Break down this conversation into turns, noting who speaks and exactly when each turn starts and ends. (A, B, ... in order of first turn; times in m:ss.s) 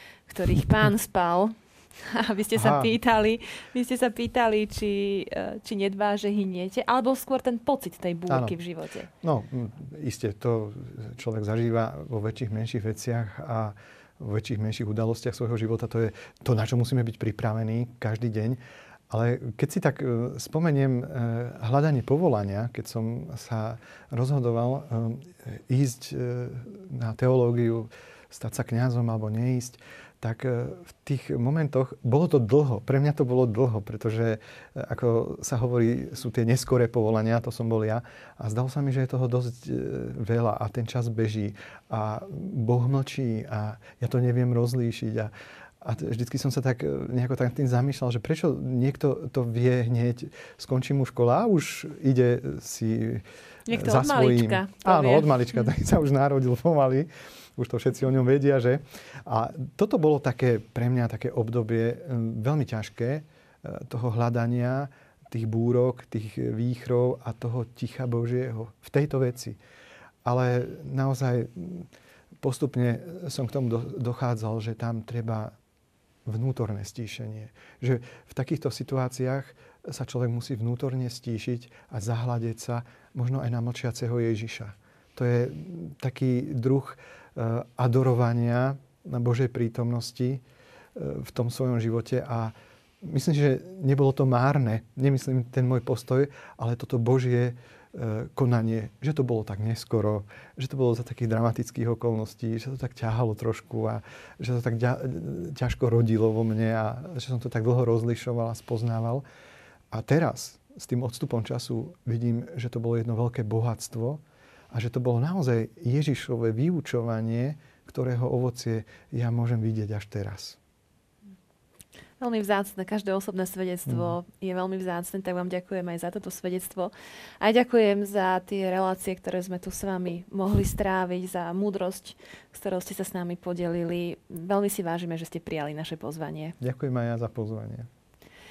0:00.3-0:09.1 A
0:02.6-0:02.9 B
0:08.3-0:08.6 B
0:09.2-1:09.6 B
0:53.7-0:55.3 A
1:10.2-1:11.9 B
1:12.4-1:15.5 B
1:16.3-1:30.4 B
1:31.0-1:49.2 B
1:49.9-2:00.6 B
2:02.2-2:16.6 A
2:03.9-2:04.2 B
2:16.6-2:17.9 B